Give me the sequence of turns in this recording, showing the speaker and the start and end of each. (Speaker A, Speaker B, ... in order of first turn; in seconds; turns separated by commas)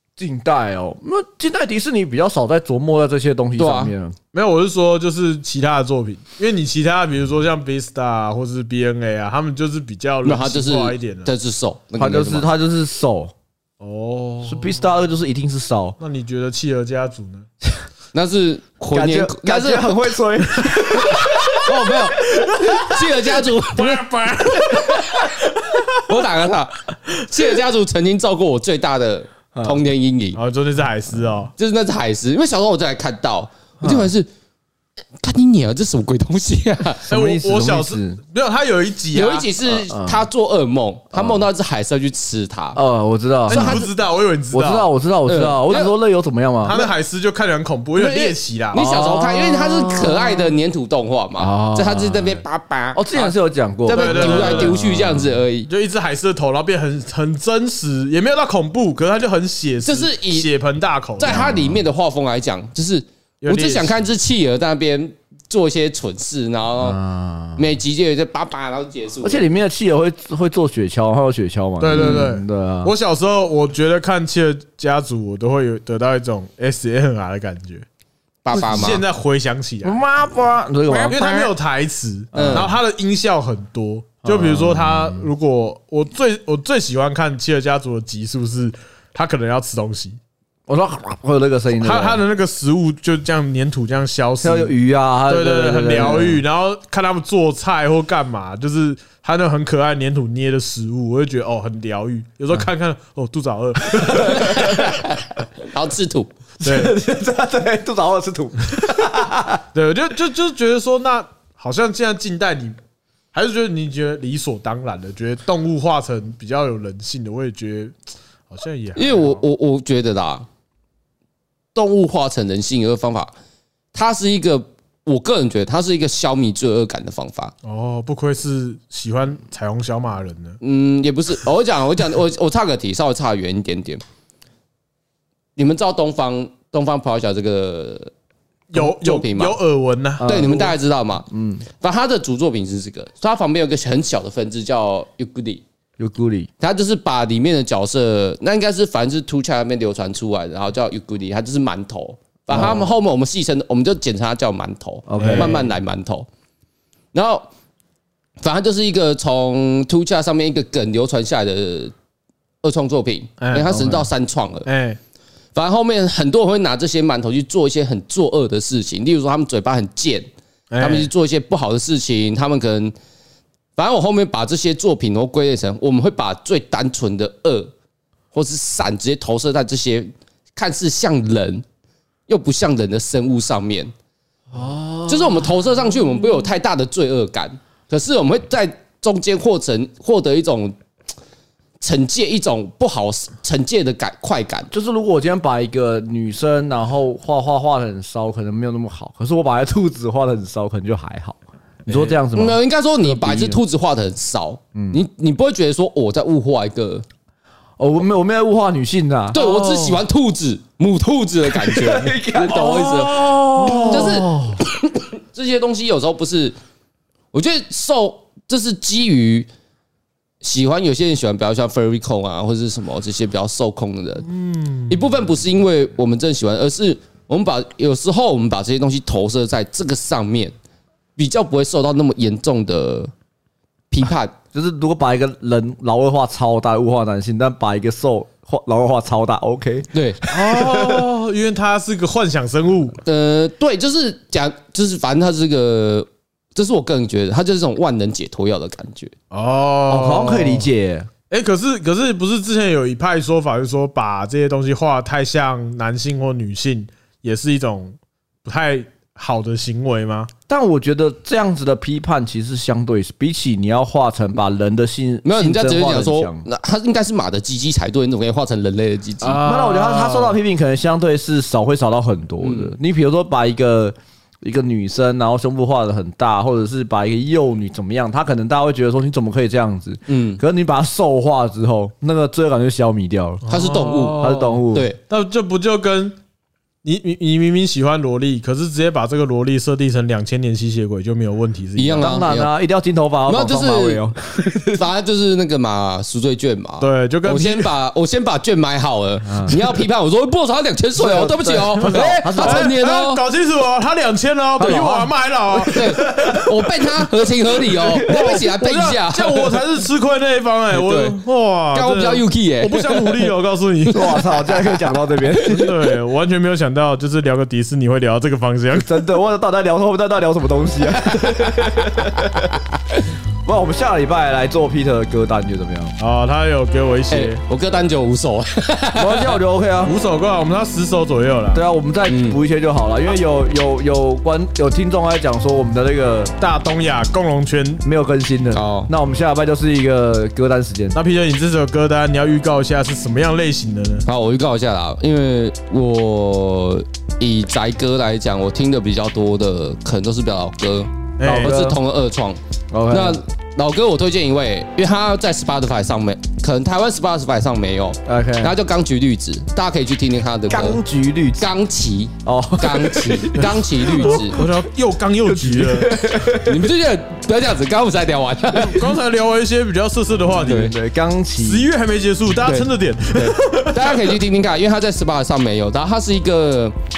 Speaker A: 0.2-4.2, Speaker B: 3.6-3.9, Speaker C: 4.3-11.3, Speaker B: 10.2-12.5, Speaker A: 12.0-13.3, Speaker C: 13.8-14.8, Speaker A: 14.4-15.9, Speaker C: 16.0-17.5, Speaker B: 18.1-19.9, Speaker A: 18.9-21.9, Speaker C: 20.7-26.1, Speaker B: 20.9-25.3, Speaker B: 25.9-30.4, Speaker A: 29.5-29.8, Speaker C: 30.4-31.5, Speaker B: 31.6-34.3, Speaker A: 33.8-34.1, Speaker B: 35.2-37.0, Speaker A: 37.1-38.2, Speaker C: 37.1-39.8, Speaker B: 39.1-42.8, Speaker A: 39.9-40.3, Speaker A: 41.1-41.4, Speaker A: 42.7-43.8, Speaker C: 43.5-44.9, Speaker B: 43.5-43.9, Speaker A: 44.5-46.8, Speaker B: 45.2-45.9, Speaker C: 46.6-48.8, Speaker B: 46.7-46.9, Speaker B: 48.0-53.3, Speaker A: 48.7-50.6, Speaker A: 51.4-52.4, Speaker A: 52.9-55.3, Speaker B: 53.9-55.7, Speaker C: 53.9-54.8, Speaker C: 55.7-61.4, Speaker B: 59.8-60.5, Speaker B: 61.2-67.0, Speaker A: 61.2-61.8, Speaker C: 63.4-64.0, Speaker A: 66.8-67.6, Speaker B: 67.6-69.5, Speaker A: 69.2-72.9, Speaker C: 71.8-77.8, Speaker B: 71.9-72.2, Speaker B: 78.4-79.0, Speaker C: 78.5-80.0, Speaker A: 79.8-81.2, Speaker B: 80.9-81.5, Speaker C: 81.1-90.2, Speaker A: 82.3-82.7, Speaker B: 82.3-82.7, Speaker A: 84.2-85.3, Speaker A: 90.7-92.2, Speaker C: 91.7-94.7, Speaker A: 94.4-96.4, Speaker C: 95.3-104.8, Speaker A: 104.0-104.9, Speaker B: 104.2-106.3, Speaker C: 106.6-107.0, Speaker A: 106.6-109.6, Speaker C: 109.7-112.8, Speaker C: 113.3-118.0, Speaker C: 118.5-119.4, Speaker B: 119.0-120.5, Speaker B: 121.7-123.3, Speaker B: 123.9-127.5, Speaker C: 127.6-130.6, Speaker B: 130.6-134.0, Speaker B: 135.6-138.1, Speaker C: 138.7-140.7, Speaker B: 138.7-139.6, Speaker A: 140.2-140.7, Speaker B: 140.2-141.2, Speaker A: 141.3-141.6, Speaker B: 141.8-145.6, Speaker A: 146.0-146.5, Speaker B: 146.6-156.3, Speaker A: 152.5-152.8, Speaker A: 155.1-155.7, Speaker C: 155.2-155.6, Speaker B: 157.1-157.4, Speaker B: 158.4-161.9, Speaker B: 162.6-164.7, Speaker C: 163.4-163.8, Speaker A: 163.7-164.1, Speaker C: 164.6-165.0, Speaker B: 165.5-170.3, Speaker C: 170.7-171.1, Speaker B: 170.8-172.9, Speaker B: 173.8-177.7, Speaker B: 178.3-181.6, Speaker B: 182.3-183.9, Speaker A: 184.5-185.5, Speaker B: 185.1-190.8, Speaker B: 191.8-194.7, Speaker A: 194.7-203.6, Speaker B: 201.9-207.0, Speaker A: 204.8-205.0, Speaker A: 207.8-210.0, Speaker B: 209.3-216.6, Speaker A: 211.4-214.6, Speaker B: 217.3-219.5, Speaker B: 220.4-224.3, Speaker C: 224.3-224.9, Speaker B: 224.9-230.5, Speaker B: 231.2-233.1, Speaker B: 233.9-234.3, Speaker A: 234.5-241.0, Speaker B: 239.9-240.2, Speaker C: 240.3-243.0, Speaker B: 243.0-249.1, Speaker C: 249.3-250.7, Speaker A: 249.9-251.1, Speaker C: 251.3-260.3, Speaker A: 260.5-266.5, Speaker B: 265.2-269.4, Speaker C: 269.2-270.4, Speaker A: 269.4-283.4, Speaker B: 272.4-272.7, Speaker B: 280.1-280.4, Speaker C: 283.4-286.2, Speaker B: 283.5-285.0, Speaker A: 284.2-284.9, Speaker C: 286.8-292.1, Speaker B: 291.8-292.5, Speaker A: 292.0-294.8, Speaker B: 293.3-294.0, Speaker B: 294.7-303.2, Speaker C: 296.8-297.7, Speaker A: 299.2-299.6, Speaker A: 300.9-302.7, Speaker C: 301.8-306.1, Speaker A: 304.6-305.1, Speaker B: 305.6-309.6, Speaker A: 305.6-306.6, Speaker A: 307.7-308.2, Speaker C: 307.8-314.3, Speaker B: 310.7-311.2, Speaker B: 311.7-313.3, Speaker A: 313.9-315.7, Speaker B: 315.3-315.7, Speaker C: 315.5-319.0, Speaker A: 318.7-322.6, Speaker A: 323.4-325.9, Speaker C: 326.0-327.4, Speaker B: 327.1-329.4, Speaker A: 328.9-329.9, Speaker C: 329.8-331.6, Speaker A: 331.5-336.3, Speaker B: 332.1-332.4, Speaker C: 336.4-337.8, Speaker A: 337.8-341.0, Speaker B: 338.5-338.9, Speaker C: 340.9-344.1, Speaker B: 344.1-352.4, Speaker C: 351.2-351.6, Speaker A: 351.2-351.8, Speaker A: 352.7-353.2, Speaker B: 352.9-360.8, Speaker A: 358.1-358.6, Speaker A: 360.5-361.5, Speaker B: 361.4-364.4, Speaker A: 362.2-364.5, Speaker C: 364.0-366.0, Speaker A: 365.2-366.7, Speaker B: 366.4-368.9, Speaker C: 368.5-370.7, Speaker A: 370.4-371.6, Speaker B: 370.5-370.7, Speaker C: 371.4-374.1, Speaker B: 372.4-376.7